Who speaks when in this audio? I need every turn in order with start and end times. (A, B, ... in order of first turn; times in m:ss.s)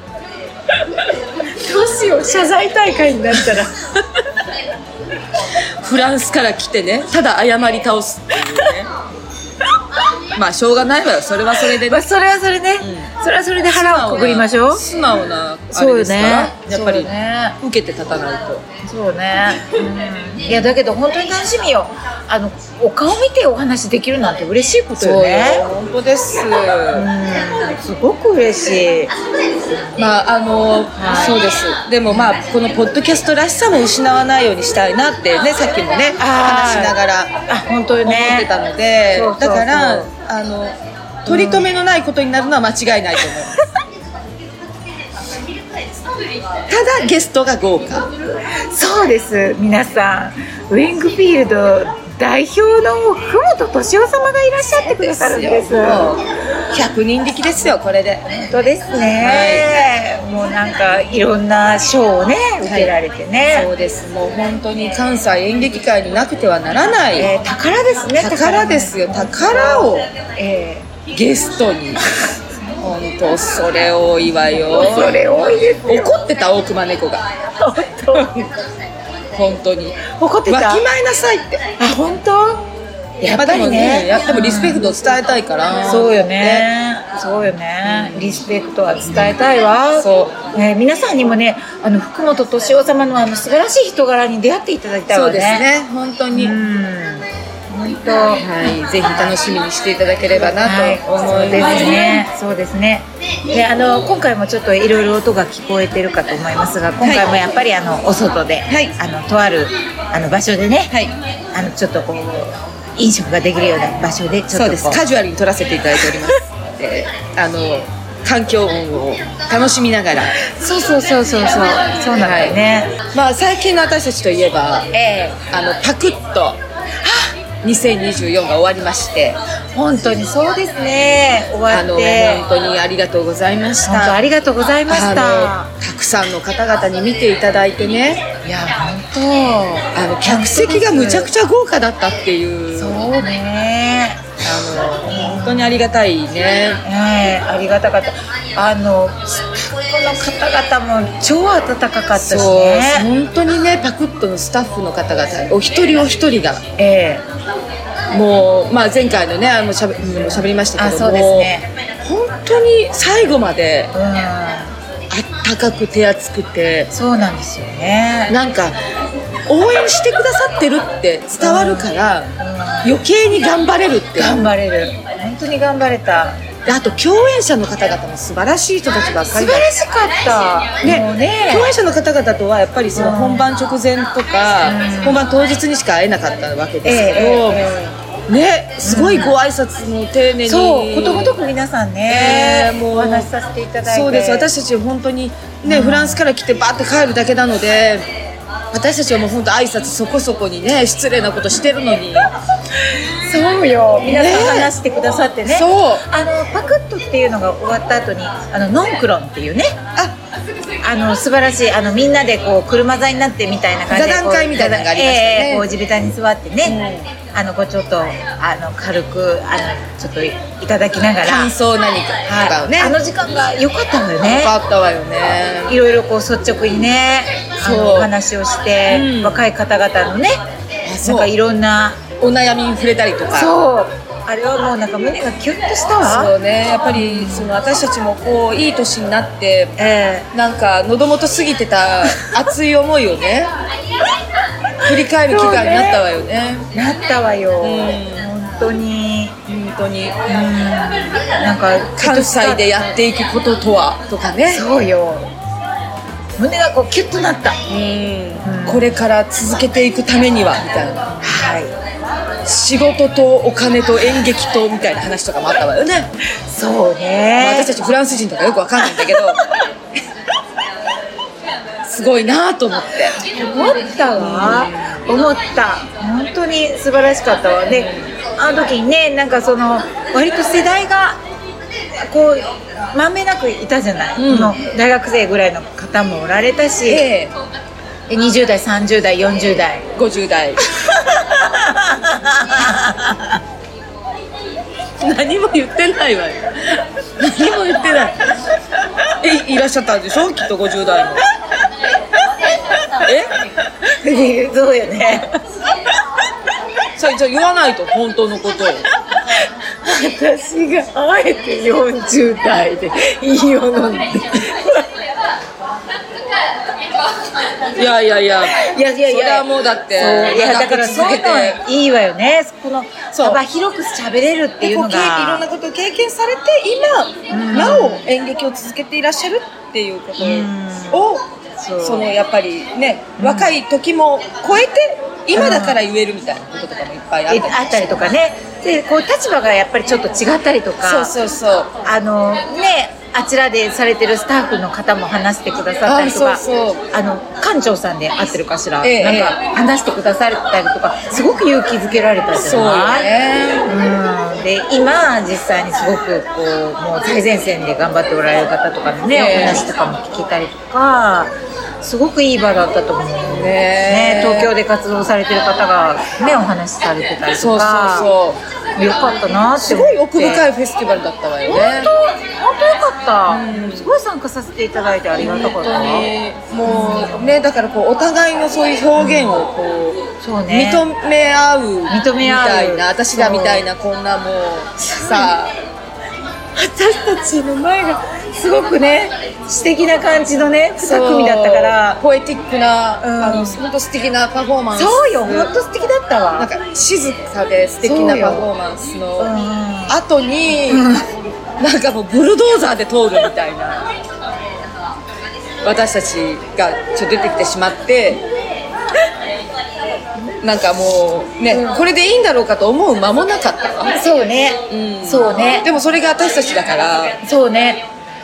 0:01.4-0:03.9 A
0:05.8-0:08.9 B
0:10.3-0:12.1 B
0:11.6-0:14.8 A
0:12.8-0:13.1 B
0:13.6-0:18.6 B
0:15.7-0:17.5 A
0:18.8-0:25.7 A
0:20.5-0:20.7 B
0:25.0-0:27.1 B
0:26.9-0:29.1 A
0:30.0-0:37.3 B
0:31.0-0:31.4 A
0:32.1-0:32.4 A
0:36.2-0:37.0 A
0:37.5-0:38.5 A
0:38.0-0:43.5 B
0:39.1-0:40.1 A
0:41.3-0:41.7 A
0:46.7-0:48.1 B
0:48.6-0:56.3 A
0:54.8-0:58.5 B
0:58.5-1:03.7 A
0:59.2-0:59.7 B
1:02.6-1:02.9 B
1:03.5-1:07.3 B
1:07.2-1:10.9 A
1:08.2-1:10.1 B
1:11.1-1:12.0 B
1:12.8-1:15.3 B
1:14.6-1:16.2 A
1:15.9-1:17.2 B
1:17.6-1:18.3 A
1:18.1-1:18.4 B
1:19.3-1:21.6 B
1:20.1-1:20.8 A
1:21.8-1:22.6 A
1:23.2-1:24.9 A
1:23.3-1:26.7 B
1:25.9-1:35.7 A
1:27.8-1:28.4 B
1:30.0-1:30.4 B
1:35.1-1:36.6 B
1:36.3-1:39.4 A
1:38.4-1:42.3 B
1:40.4-1:51.0 A
1:47.0-1:47.3 B
1:48.7-1:48.9 B
1:51.5-1:55.0 A
1:54.5-2:00.4 B
2:00.4-2:03.0 A
2:02.2-2:02.6 B
2:03.1-2:06.6 B
2:07.6-2:09.4 B
2:09.7-2:12.4 A
2:11.7-2:14.2 B
2:13.8-2:15.7 A
2:14.9-2:18.3 B
2:18.4-2:21.3 A
2:20.0-2:23.3 B
2:22.8-2:24.4 A
2:24.4-2:26.8 B
2:25.0-2:26.0 A
2:26.8-2:33.1 A
2:32.2-2:36.6 B
2:36.8-2:37.2 A
2:38.1-2:43.9 B
2:40.0-2:41.7 A
2:43.9-2:44.7 A
2:45.1-2:46.9 B
2:46.9-2:48.4 A
2:48.3-2:48.8 B
2:49.5-2:52.3 B
2:51.4-2:53.0 A
2:52.8-2:54.5 B
2:54.2-2:56.4 A
2:56.7-2:59.7 B
2:59.3-3:01.8 A
3:00.8-3:07.7 B
3:03.0-3:03.5 A
3:04.6-3:05.2 A
3:06.8-3:07.9 A
3:08.3-3:11.4 B
3:08.8-3:09.3 A
3:10.4-3:14.5 A
3:12.1-3:13.3 B
3:13.8-3:18.1 B
3:15.7-3:16.2 A
3:18.7-3:22.3 B
3:22.9-3:29.7 A
3:24.0-3:24.8 B
3:25.4-3:26.1 B
3:30.8-3:36.8 A
3:33.9-3:35.7 B
3:36.6-3:37.1 B
3:37.3-3:41.5 A
3:41.2-3:43.0 B
3:42.2-3:44.6 A
3:44.2-3:45.8 B
3:45.7-3:50.4 A
3:47.6-3:48.1 B
3:48.9-3:49.5 B
3:50.8-3:51.3 B
3:51.0-3:52.0 A
3:52.2-3:53.5 B
3:53.3-3:56.3 A
3:56.0-3:59.8 B
3:56.9-3:57.6 A
3:59.8-4:00.3 A
4:00.3-4:03.5 B
4:04.8-4:06.7 B
4:05.3-4:06.0 A
4:06.7-4:09.4 A
4:07.6-4:08.3 B
4:09.5-4:10.2 B
4:10.3-4:13.0 A
4:12.0-4:14.7 B
4:14.5-4:15.3 A
4:16.4-4:17.6 A
4:17.7-4:21.1 B
4:18.4-4:19.0 A
4:21.2-4:21.7 A
4:22.4-4:26.1 B
4:26.5-4:27.7 A
4:27.4-4:29.4 B
4:28.8-4:29.3 A
4:31.8-4:33.2 B
4:33.3-4:41.2 A
4:34.2-4:35.1 B
4:37.7-4:38.1 B
4:42.0-4:47.1 A
4:44.2-4:44.6 B
4:46.9-4:47.3 B
4:48.1-4:49.9 A
4:50.0-4:50.6 B
4:50.7-4:53.4 A
4:55.0-4:58.2 B
4:59.2-5:01.2 B
5:03.0-5:03.3 B
5:04.0-5:05.3 A
5:07.0-5:08.8 B
5:09.1-5:14.8 A
5:17.8-5:21.6 B
5:18.4-5:25.4 A
5:23.1-5:23.4 B
5:24.6-5:31.3 B
5:27.3-5:28.1 A
5:30.2-5:31.0 A
5:31.6-5:32.1 A
5:31.8-5:38.2 B
5:33.2-5:33.6 A
5:35.3-5:35.8 A
5:37.3-5:41.1 A
5:40.8-5:41.7 B
5:41.8-5:53.1 A
5:45.8-5:46.9 B
5:48.8-5:49.4 B
5:52.3-5:53.7 B
5:53.7-6:08.1 A
5:59.1-5:59.7 B
6:03.3-6:04.5 B
6:07.3-6:08.4 B
6:08.8-6:10.5 A
6:09.6-6:11.9 B
6:11.5-6:16.1 A
6:13.3-6:14.0 B
6:15.2-6:25.5 B
6:16.6-6:17.4 A
6:19.0-6:19.5 A
6:20.2-6:20.8 A
6:21.9-6:23.6 A
6:25.0-6:25.3 A
6:26.6-6:32.0 A
6:30.8-6:35.5 B
6:33.0-6:33.6 A
6:34.7-6:36.5 A
6:36.4-6:39.3 B
6:37.8-6:38.5 A
6:39.2-6:40.0 A
6:39.9-6:40.9 B
6:40.7-6:41.1 A
6:41.6-6:43.8 B
6:45.6-6:48.2 B
6:50.4-6:54.0 B
6:51.5-6:51.8 A
6:53.9-6:55.7 A
6:54.7-6:57.2 B
6:57.2-6:57.8 A